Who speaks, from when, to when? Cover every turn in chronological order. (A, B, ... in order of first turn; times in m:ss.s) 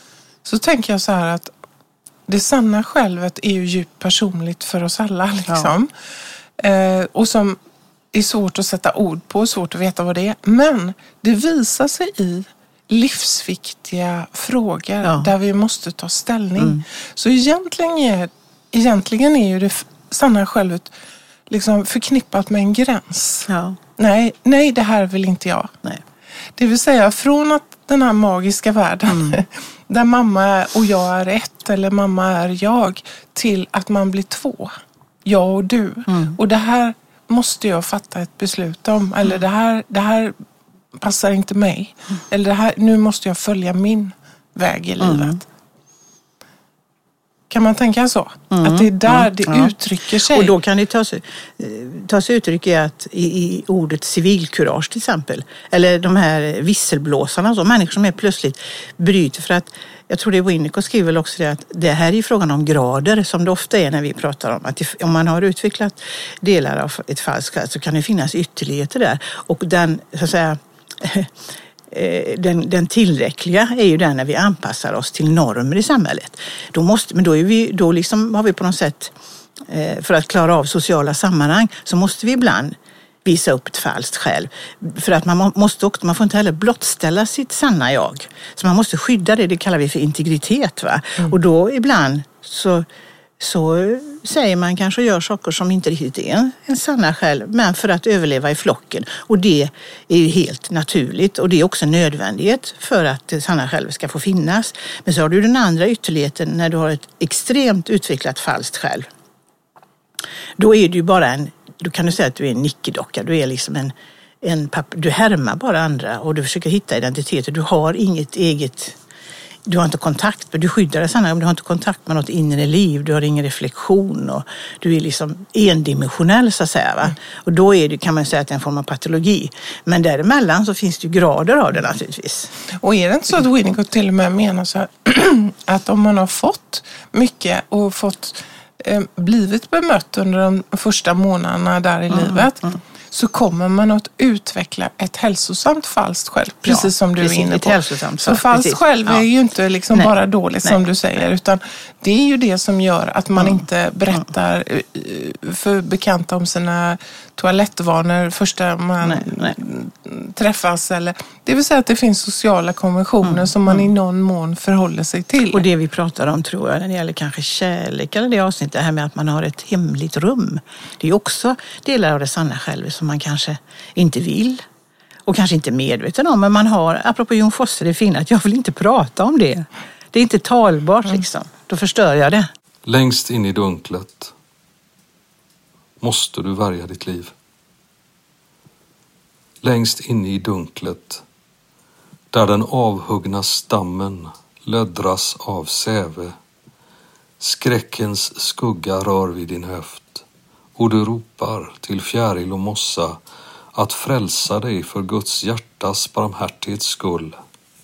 0:00.4-0:01.5 A
0:02.3-0:05.9 A
0:06.6-0:07.6 A
0:08.1-0:20.9 A
0:15.0-0:15.3 B
0:16.6-0:16.8 B
0:21.5-0:25.7 A
0:23.5-0:23.8 B
0:26.6-0:34.7 A
0:29.1-0:29.4 B
0:35.2-0:40.4 A
0:36.1-0:36.4 B
0:41.0-0:45.4 A
0:45.0-0:45.4 B
0:47.5-0:50.5 A
0:48.5-0:49.7 B
0:50.3-1:11.3 B
1:11.9-1:19.1 B
1:19.7-1:32.9 B
1:33.4-1:49.1 B
1:50.6-1:59.0 B
1:59.7-2:12.5 B
2:12.8-2:45.6 A
2:22.1-2:22.8 B
2:26.6-2:29.2 B
2:33.4-2:34.2 B
2:39.0-2:39.6 B
2:43.2-2:43.9 B
2:45.5-2:54.6 B
2:55.3-3:02.5 B
3:02.9-3:04.3 C
3:06.0-3:07.3 C
3:09.6-3:11.2 C
3:12.3-3:16.4 C
3:17.4-3:20.2 C
3:20.8-3:23.2 C
3:23.8-3:27.4 C